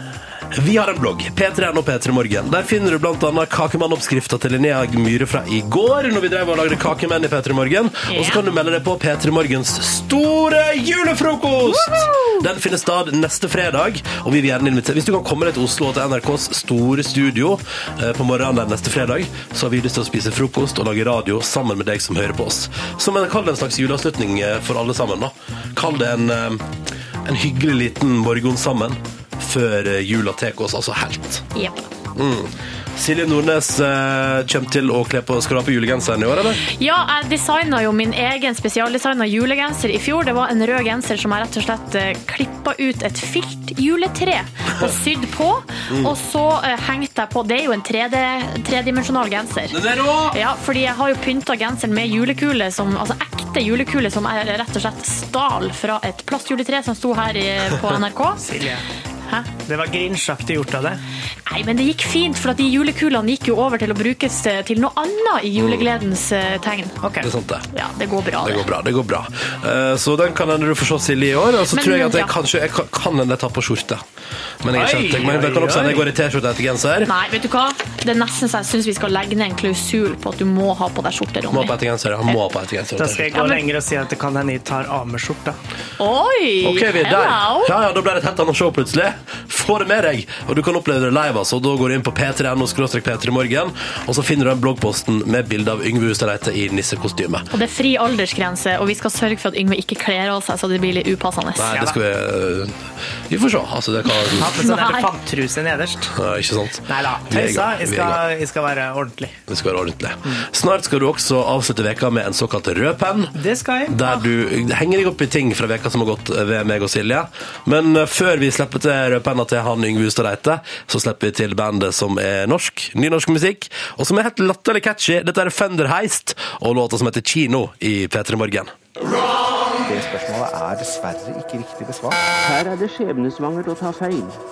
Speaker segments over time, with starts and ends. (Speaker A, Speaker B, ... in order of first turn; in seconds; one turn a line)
Speaker A: 0.5-26.7
Speaker B: 8.1-8.4
Speaker B: 11.7-12.4
Speaker A: 27.2-31.4
Speaker B: 31.6-31.9
Speaker A: 32.1-36.6
Speaker B: 36.6-49.8
Speaker A: 45.9-46.1
Speaker A: 49.7-50.4
Speaker B: 50.3-58.5
Speaker C: 58.4-58.9
Speaker C: 59.6-61.0
Speaker B: 61.5-67.0
Speaker A: 65.6-65.8
Speaker C: 67.0-67.3
Speaker A: 67.2-67.7
Speaker B: 67.7-68.7
Speaker A: 68.4-74.0
Speaker B: 71.7-72.3
Speaker A: 74.6-77.1
Speaker C: 74.7-76.1
Speaker B: 77.1-81.8
Speaker A: 81.5-83.3
Speaker C: 83.0-85.6
Speaker B: 83.3-83.6
Speaker B: 86.0-87.7
Speaker A: 86.6-97.5
Speaker B: 97.5-101.8
Speaker A: 101.6-104.5
Speaker C: 101.7-102.0
Speaker C: 104.3-106.2
Speaker B: 104.5-105.1
Speaker A: 106.1-108.2
Speaker C: 106.9-109.4
Speaker A: 109.5-113.4
Speaker C: 113.3-114.0
Speaker A: 113.9-128.7
Speaker D: 129.9-132.2
Speaker E: 132.4-134.4